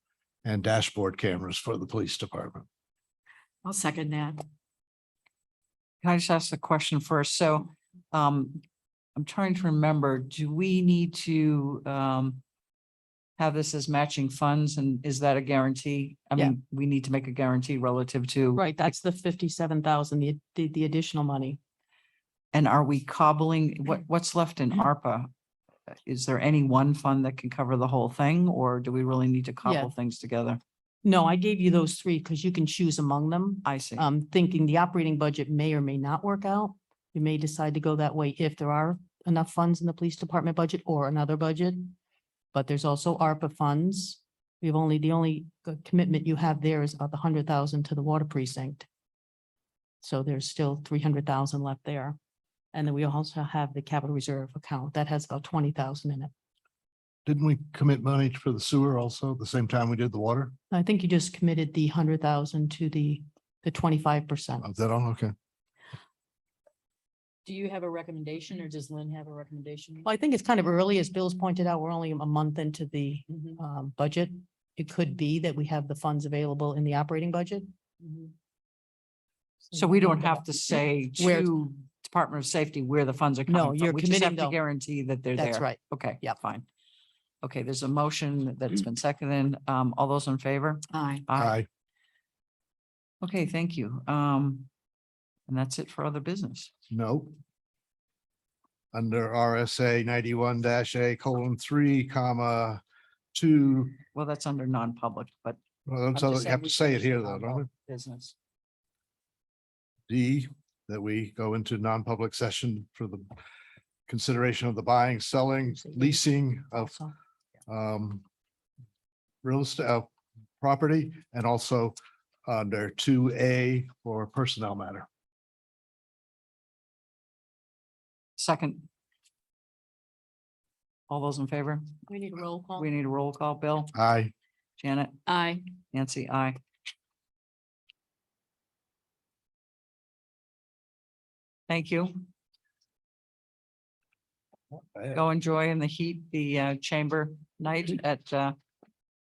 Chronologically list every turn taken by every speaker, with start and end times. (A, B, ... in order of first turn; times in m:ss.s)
0:00.4-0:02.6 A
0:03.6-0:04.4 B
0:06.0-0:08.6 C
0:09.2-0:12.4 C
0:13.4-0:18.9 C
0:18.6-0:21.6 B
0:22.5-0:25.3 C
0:26.0-0:30.6 C
0:29.6-0:29.9 B
0:31.0-0:41.9 B
0:33.6-0:34.0 C
0:42.5-0:48.8 B
0:50.0-0:52.2 B
0:52.7-0:56.3 B
0:57.2-1:00.5 A
1:00.7-1:04.6 B
1:04.6-1:05.3 A
1:07.4-1:10.0 D
1:10.0-1:17.7 B
1:19.7-1:20.4 B
1:19.7-1:26.6 C
1:21.2-1:21.5 B
1:23.5-1:24.6 B
1:25.4-1:26.4 B
1:27.4-1:31.6 C
1:31.4-1:31.7 A
1:33.2-1:34.7 C
1:35.5-1:36.7 C
1:36.9-1:37.3 A
1:38.9-1:42.8 A
1:43.3-1:44.0 A
1:44.1-1:45.6 C
1:45.9-1:47.7 A
1:46.1-1:48.3 C
1:50.1-1:53.2 A
1:54.1-1:56.9 A
1:55.7-1:57.1 B
1:57.7-1:58.2 A
1:59.4-2:00.1 A
2:00.6-2:02.0 A
2:02.5-2:05.1 A
2:08.4-2:08.9 C
2:11.1-2:11.9 C
2:12.1-2:12.9 B
2:12.8-2:13.9 C
2:13.9-2:14.3 A
2:14.8-2:15.1 C
2:15.3-2:15.6 D
2:15.9-2:16.6 C
2:21.7-2:22.2 C
2:24.7-2:25.2 A
2:25.1-2:28.6 C